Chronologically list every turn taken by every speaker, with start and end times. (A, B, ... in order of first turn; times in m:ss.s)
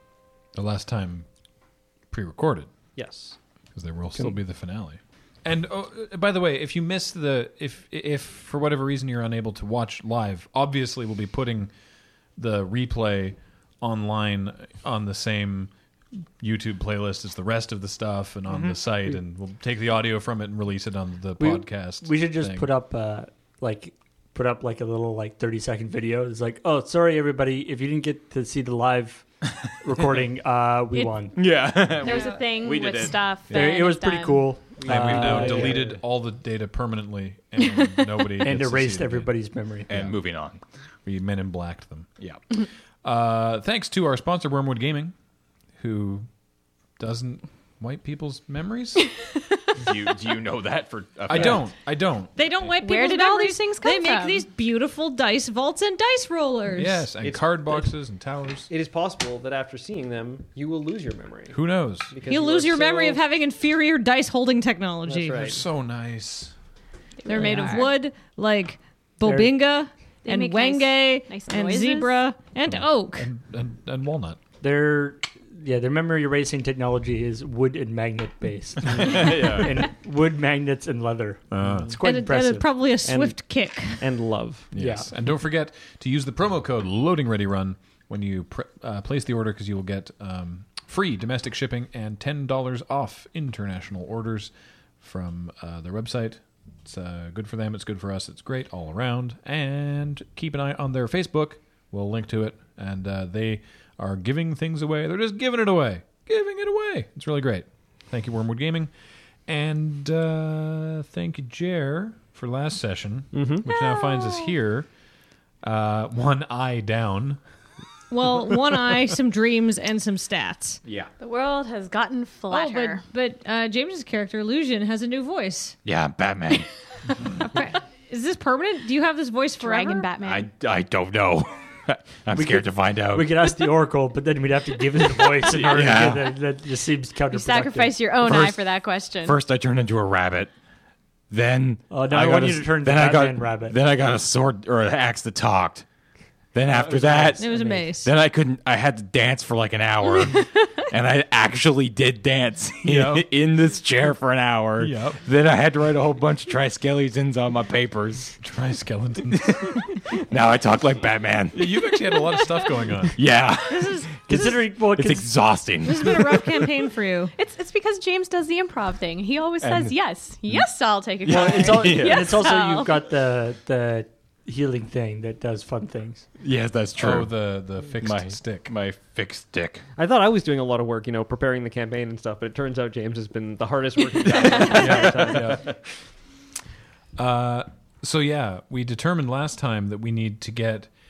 0:00.5-0:01.3 A
0:02.1-0:02.7 A
0:03.0-0:03.4 B
0:03.8-0:11.7 A
0:12.4-0:15.7 A
0:16.4-0:22.7 A
0:21.4-0:29.3 C
0:29.8-0:31.5 C
0:31.4-0:33.3 D
0:31.7-0:34.5 E
0:32.0-0:32.4 F
0:33.5-0:33.9 A
0:33.5-0:36.0 C
0:34.8-0:35.9 D
0:34.8-0:39.3 A
0:38.4-0:39.9 C
0:39.9-0:40.6 D
0:39.9-0:40.2 A
0:41.0-0:42.1 A
0:43.0-0:45.1 A
0:45.8-0:46.3 A
0:47.0-0:49.1 A
0:49.8-0:51.7 D
0:51.3-0:52.3 A
0:52.4-0:57.0 F
0:52.8-0:54.4 E
0:56.7-0:58.7 A
0:57.2-0:57.9 B
0:58.7-1:03.2 B
1:01.5-1:02.1 A
1:02.3-1:05.4 F
1:05.1-1:05.7 B
1:05.3-1:06.5 A
1:07.2-1:07.9 E
1:07.3-1:13.3 F
1:09.2-1:09.5 C
1:10.2-1:12.2 E
1:12.7-1:14.4 A
1:14.6-1:22.7 C
1:18.9-1:19.8 D
1:21.5-1:22.0 A
1:22.0-1:24.1 F
1:23.0-1:23.4 B
1:24.0-1:24.7 B
1:24.7-1:48.9 A
1:24.8-1:25.1 C
1:49.5-1:54.9 A
1:53.3-1:53.6 B
1:53.7-1:54.5 E
1:55.6-1:57.4 A
1:58.1-2:00.8 F
2:00.8-2:01.1 D
2:01.2-2:03.0 E
2:02.5-2:05.8 F
2:05.8-2:06.7 D
2:07.4-2:10.1 F
2:09.6-2:10.5 E
2:10.2-2:13.4 D
2:12.3-2:18.2 C
2:15.5-2:16.1 A
2:15.5-2:16.4 D
2:17.3-2:19.4 E
2:18.2-2:18.7 D
2:19.2-2:20.5 D
2:21.3-2:25.8 D
2:21.9-2:23.8 C
2:26.5-2:38.4 D
2:26.6-2:27.9 C
2:27.4-2:28.1 F
2:32.8-2:33.3 A
2:34.8-2:35.2 A
2:38.4-2:39.8 A
2:39.3-2:41.9 D
2:41.5-2:43.2 A
2:43.1-2:46.6 D
2:43.7-2:44.4 F
2:44.3-2:45.3 C
2:45.8-2:47.3 F
2:47.4-2:53.0 E
2:51.3-2:56.2 C
2:51.3-2:52.3 D
2:56.4-2:57.4 D
2:57.0-2:58.7 A
2:58.0-2:59.8 D
3:00.0-3:05.7 B
3:04.5-3:05.7 A
3:07.2-3:10.9 A